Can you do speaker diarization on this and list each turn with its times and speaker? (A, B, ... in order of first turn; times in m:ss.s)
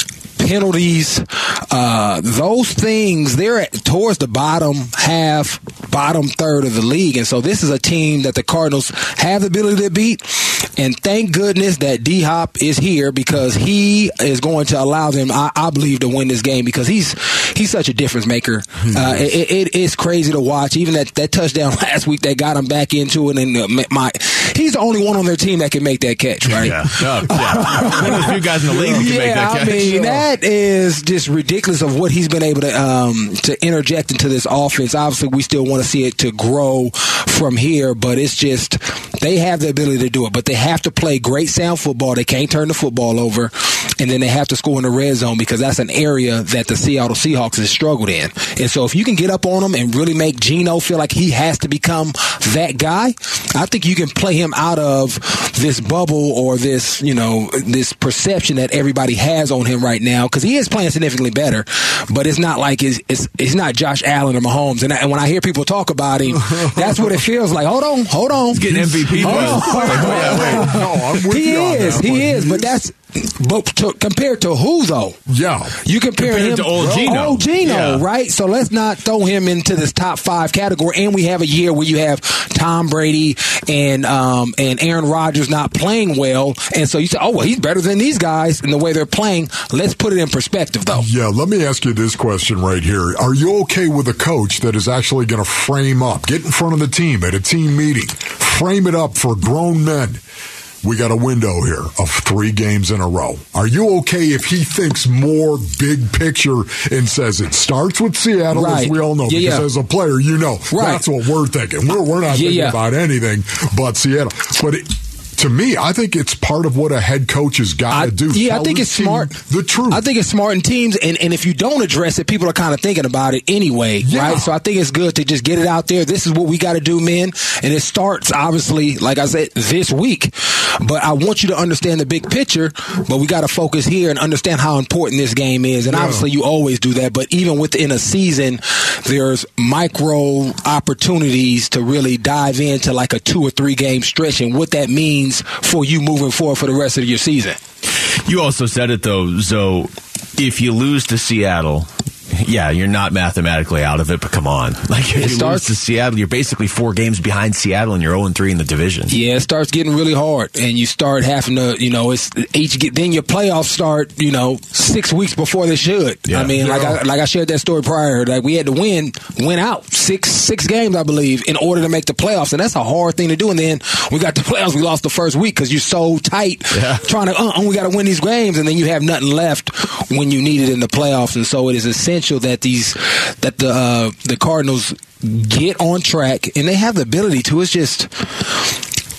0:00.4-1:08.6 A
0:18.8-0:19.3 B
0:26.5-0:30.0 C
0:28.7-0:29.1 B
0:29.6-0:30.2 B
1:06.3-1:07.2 B
1:08.5-1:10.7 C
1:08.6-1:12.8 B
1:09.1-1:15.2 A
1:15.3-1:15.8 B
1:15.8-1:31.0 A
1:16.2-1:18.0 C
1:16.7-1:17.1 B
1:30.9-1:40.2 B
1:40.8-2:00.0 B
1:48.5-1:49.6 A
1:50.7-1:51.0 A
1:52.3-1:52.8 A
1:57.9-1:59.3 A
1:59.9-2:27.6 A
2:04.0-2:04.5 B
2:15.9-2:16.2 B
2:28.2-2:39.1 C
2:35.1-2:35.6 A
2:39.1-3:08.7 A
2:46.3-2:46.5 C
2:46.6-2:47.0 B
2:56.7-2:57.0 C